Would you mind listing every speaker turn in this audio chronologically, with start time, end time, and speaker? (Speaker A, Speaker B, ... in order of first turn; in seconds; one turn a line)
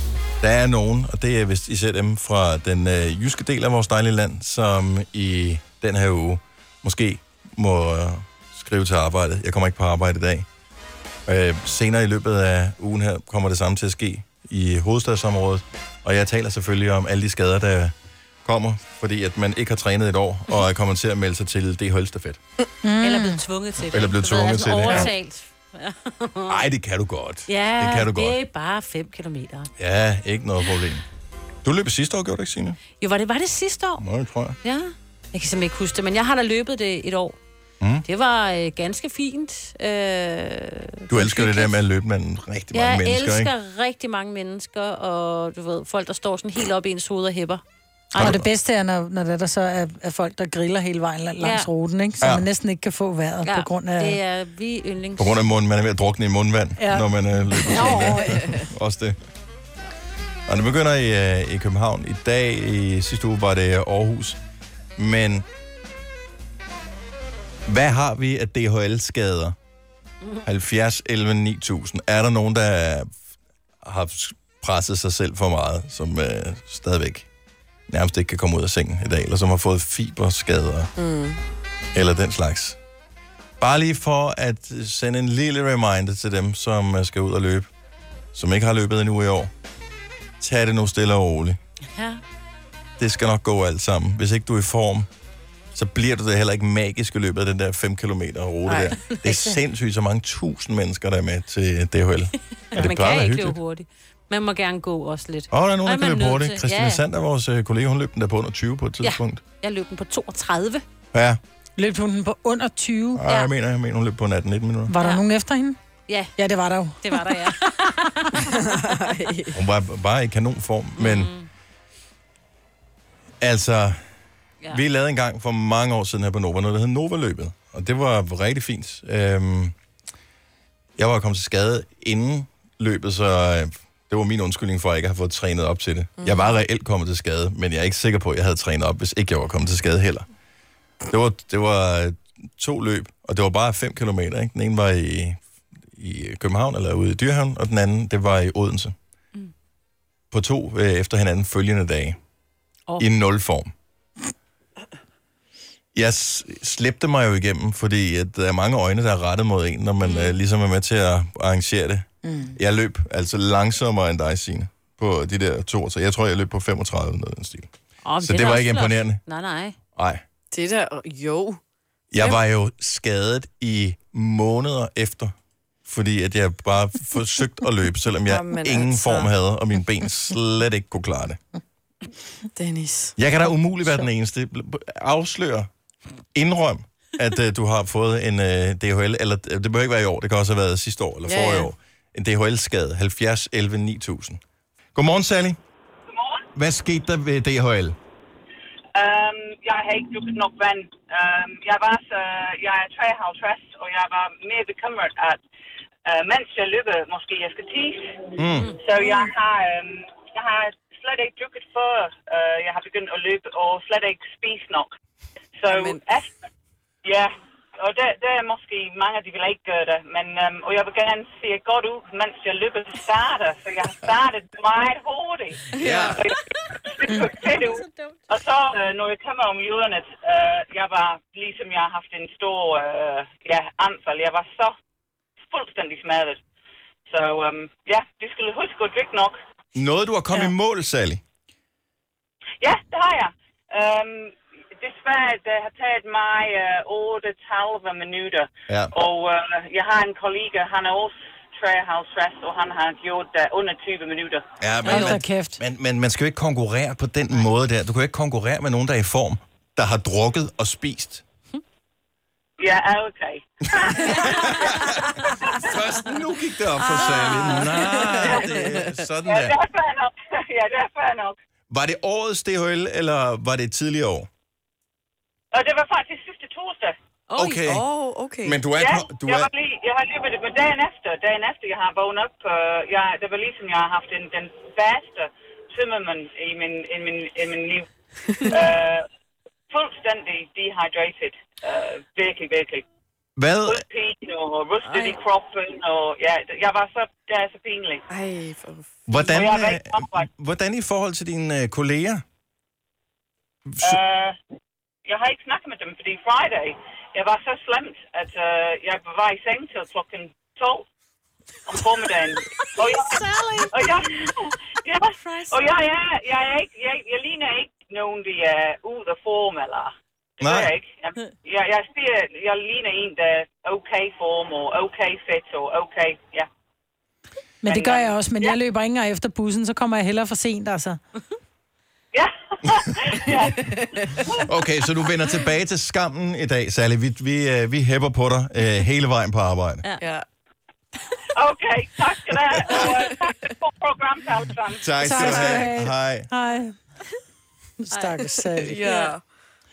Speaker A: 0.4-10.4
Speaker A: 11.3-17.9
Speaker A: 18.4-22.4
Speaker B: 22.8-23.4
Speaker C: 23.0-26.6
Speaker A: 23.9-25.1
Speaker A: 26.5-28.4
Speaker C: 27.5-29.7
Speaker A: 29.8-31.0
Speaker A: 31.6-32.8
Speaker C: 33.0-34.0
Speaker A: 34.0-34.6
Speaker C: 34.6-37.4
Speaker A: 37.8-38.0
Speaker C: 38.0-41.8
Speaker A: 41.1-43.5
Speaker C: 42.7-48.4
Speaker A: 48.1-48.5
Speaker B: 48.2-54.2
Speaker C: 51.4-51.7
Speaker A: 52.2-52.5
Speaker C: 53.4-55.4
Speaker A: 55.2-59.1
Speaker B: 56.8-58.4
Speaker C: 57.7-58.5
Speaker A: 60.5-64.4
Speaker A: 65.0-65.4
Speaker A: 67.7-69.5
Speaker A: 70.4-73.1
Speaker A: 73.8-77.3
Speaker A: 77.9-80.9
Speaker D: 81.0-81.4
Speaker A: 81.9-82.8
Speaker A: 83.6-87.7
Speaker A: 88.3-89.5
Speaker A: 90.4-91.6
Speaker C: 91.9-92.2
Speaker A: 93.0-95.1
Speaker A: 95.7-103.6
Speaker D: 98.7-99.0
Speaker C: 99.1-99.6
Speaker C: 102.7-107.0
Speaker A: 105.5-109.4
Speaker C: 109.0-110.8
Speaker A: 111.1-111.4
Speaker B: 111.8-113.2
Speaker A: 113.1-114.9
Speaker C: 113.2-113.5
Speaker B: 114.9-115.8
Speaker C: 115.0-115.2
Speaker C: 116.1-116.3
Speaker B: 116.4-117.5
Speaker C: 117.0-118.7
Speaker D: 118.4-119.6
Speaker A: 119.5-121.3
Speaker C: 121.0-121.5
Speaker A: 123.4-124.0
Speaker A: 124.7-129.7
Speaker A: 131.0-140.2
Speaker D: 136.2-136.5
Speaker A: 141.0-145.4
Speaker A: 145.9-148.9
Speaker A: 150.3-152.2
Speaker A: 153.0-153.7
Speaker A: 155.9-167.7
Speaker C: 160.0-160.4
Speaker B: 162.2-162.5
Speaker C: 168.0-169.8
Speaker A: 168.2-169.2
Speaker A: 169.9-170.2
Speaker D: 170.5-171.6
Speaker A: 172.1-175.3
Speaker A: 175.8-181.4
Speaker D: 178.2-179.3
Speaker D: 182.5-183.2
Speaker A: 183.2-185.7
Speaker A: 186.3-194.4
Speaker D: 191.2-191.7
Speaker A: 194.9-195.6
Speaker E: 196.1-196.4
Speaker A: 196.5-197.9
Speaker E: 198.9-205.4
Speaker E: 206.1-214.9
Speaker A: 208.4-208.7
Speaker C: 208.6-209.2
Speaker E: 215.6-216.3
Speaker D: 215.7-216.0
Speaker E: 217.0-234.7
Speaker D: 225.7-226.2
Speaker A: 225.8-226.2
Speaker E: 235.4-236.4
Speaker E: 237.1-239.3
Speaker A: 239.7-241.2
Speaker E: 242.6-254.4
Speaker A: 254.6-261.2
Speaker B: 254.9-255.6
Speaker C: 254.9-255.2
Speaker E: 262.6-264.8
Speaker A: 264.0-269.5
Speaker E: 265.4-265.7
Speaker C: 267.1-267.7
Speaker D: 268.0-268.4
Speaker E: 269.2-271.4
Speaker A: 271.7-274.3
Speaker E: 275.5-276.9
Speaker C: 277.3-277.6
Speaker A: 277.4-277.8
Speaker D: 277.6-278.6
Speaker A: 278.4-279.5
Speaker E: 278.7-287.9
Speaker D: 288.3-288.6
Speaker E: 288.5-289.1
Speaker E: 289.7-292.8
Speaker A: 293.4-293.8
Speaker E: 293.6-298.0
Speaker D: 294.8-295.2
Speaker D: 298.1-299.3
Speaker A: 299.1-302.2
Speaker E: 299.3-300.3
Speaker A: 303.7-304.0
Speaker E: 303.8-304.3
Speaker E: 305.1-310.8
Speaker E: 311.7-326.5
Speaker D: 313.2-313.7
Speaker D: 315.3-315.7
Speaker A: 320.4-320.7
Speaker B: 327.6-331.0
Speaker E: 327.6-328.6
Speaker E: 332.1-333.7
Speaker D: 333.7-334.1
Speaker A: 334.3-339.8
Speaker D: 340.0-340.2
Speaker E: 341.3-345.6
Speaker D: 342.7-343.1
Speaker A: 344.8-346.3
Speaker B: 345.0-346.8
Speaker B: 347.8-348.8
Speaker C: 347.9-348.2
Speaker D: 348.2-349.2
Speaker C: 348.8-349.1